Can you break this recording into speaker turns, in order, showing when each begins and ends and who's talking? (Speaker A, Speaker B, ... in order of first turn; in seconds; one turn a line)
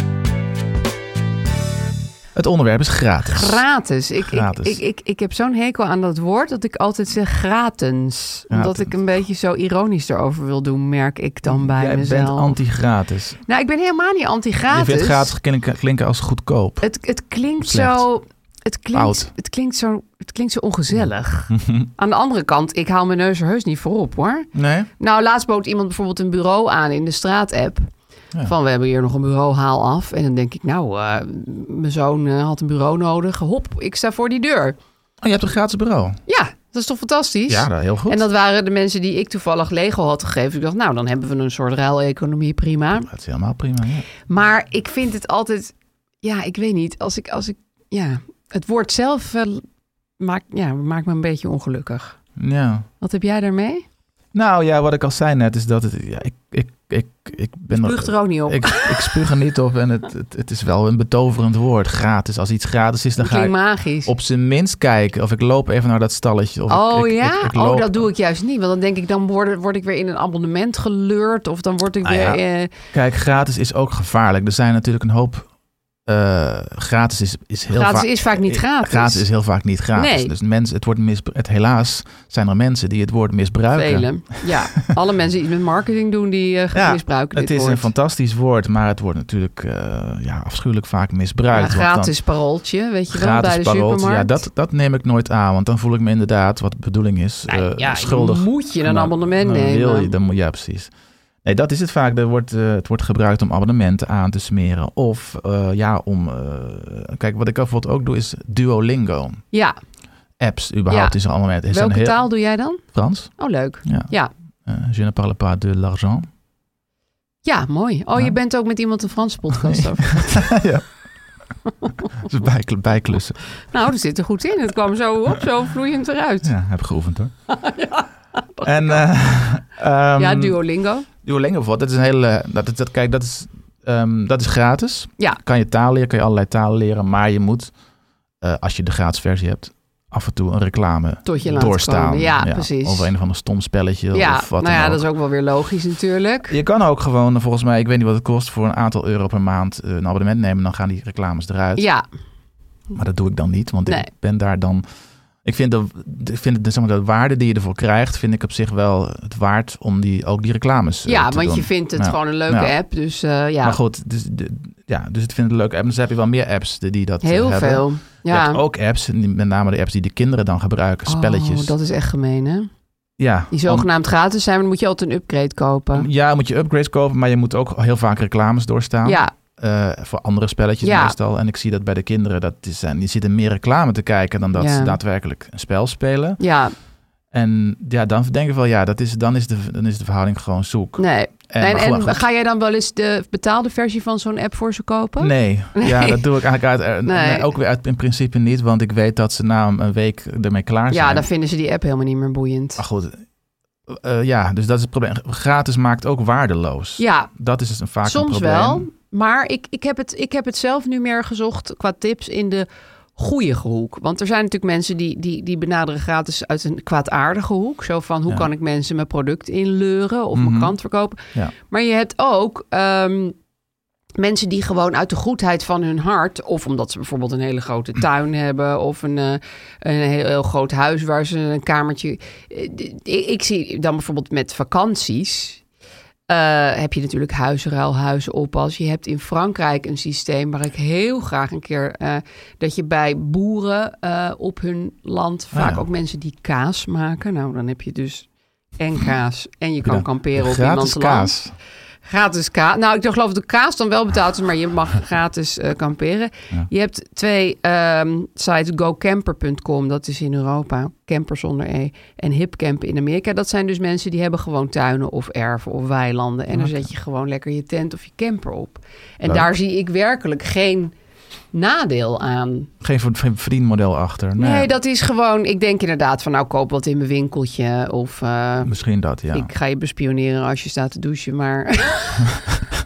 Speaker A: 2.4-3.6
Speaker B: 3.2-12.6
Speaker A: 4.2-4.8
Speaker A: 8.5-8.9
Speaker A: 11.4-13.4
Speaker B: 13.5-15.3
Speaker A: 14.7-16.9
Speaker B: 16.8-24.5
Speaker A: 17.6-18.1
Speaker A: 18.9-19.3
Speaker A: 21.0-21.9
Speaker A: 24.5-24.9
Speaker B: 25.0-27.9
Speaker B: 28.4-34.8
Speaker A: 35.2-36.2
Speaker B: 36.3-43.1
Speaker A: 37.5-38.2
Speaker A: 43.0-44.1
Speaker B: 44.3-49.6
Speaker B: 50.2-52.2
Speaker A: 52.4-52.9
Speaker B: 53.0-53.9
Speaker A: 54.3-68.1
Speaker B: 57.7-59.2
Speaker B: 63.2-64.1
Speaker B: 66.7-72.7
Speaker A: 72.0-72.4
Speaker A: 72.9-75.5
Speaker A: 76.0-84.8
Speaker B: 77.7-79.2
Speaker B: 80.0-80.3
Speaker B: 83.7-87.9
Speaker A: 86.7-92.1
Speaker B: 91.5-94.4
Speaker A: 93.1-100.9
Speaker B: 97.5-100.1
Speaker A: 101.4-109.4
Speaker B: 109.5-109.8
Speaker A: 110.4-112.3
Speaker B: 110.9-111.2
Speaker B: 111.7-112.8
Speaker A: 112.8-113.3
Speaker B: 113.4-114.3
Speaker A: 113.8-114.1
Speaker A: 114.7-116.3
Speaker B: 117.5-120.5
Speaker A: 119.6-120.9
Speaker B: 121.8-122.1
Speaker A: 122.2-123.4
Speaker B: 123.7-126.5
Speaker A: 126.4-127.3
Speaker B: 127.5-129.1
Speaker A: 128.6-130.6
Speaker B: 130.2-131.1
Speaker A: 131.2-137.7
Speaker A: 138.4-145.0
Speaker B: 141.2-143.1
Speaker B: 144.1-146.6
Speaker A: 146.5-151.9
Speaker B: 151.8-152.1
Speaker A: 152.9-154.8
Speaker A: 155.4-162.8
Speaker B: 161.1-163.8
Speaker A: 163.6-171.7
Speaker B: 167.2-168.6
Speaker B: 171.1-172.7
Speaker A: 173.2-173.9
Speaker B: 173.5-176.1
Speaker A: 175.9-186.4
Speaker B: 179.1-179.3
Speaker B: 180.8-181.2
Speaker B: 184.6-185.0
Speaker B: 186.4-186.8
Speaker A: 187.3-192.2
Speaker B: 191.0-196.2
Speaker A: 195.2-201.3
Speaker B: 197.1-197.5
Speaker B: 200.9-202.8
Speaker A: 202.8-203.2
Speaker A: 203.9-208.9
Speaker B: 207.0-207.3
Speaker B: 208.0-223.3
Speaker A: 220.3-220.8
Speaker B: 224.2-235.6
Speaker B: 236.3-251.3
Speaker A: 245.5-245.8
Speaker A: 249.8-251.5
Speaker B: 252.1-270.9
Speaker A: 266.5-266.9
Speaker B: 271.5-272.7
Speaker A: 272.8-274.7
Speaker B: 274.4-278.7
Speaker A: 278.6-279.5
Speaker B: 279.3-282.4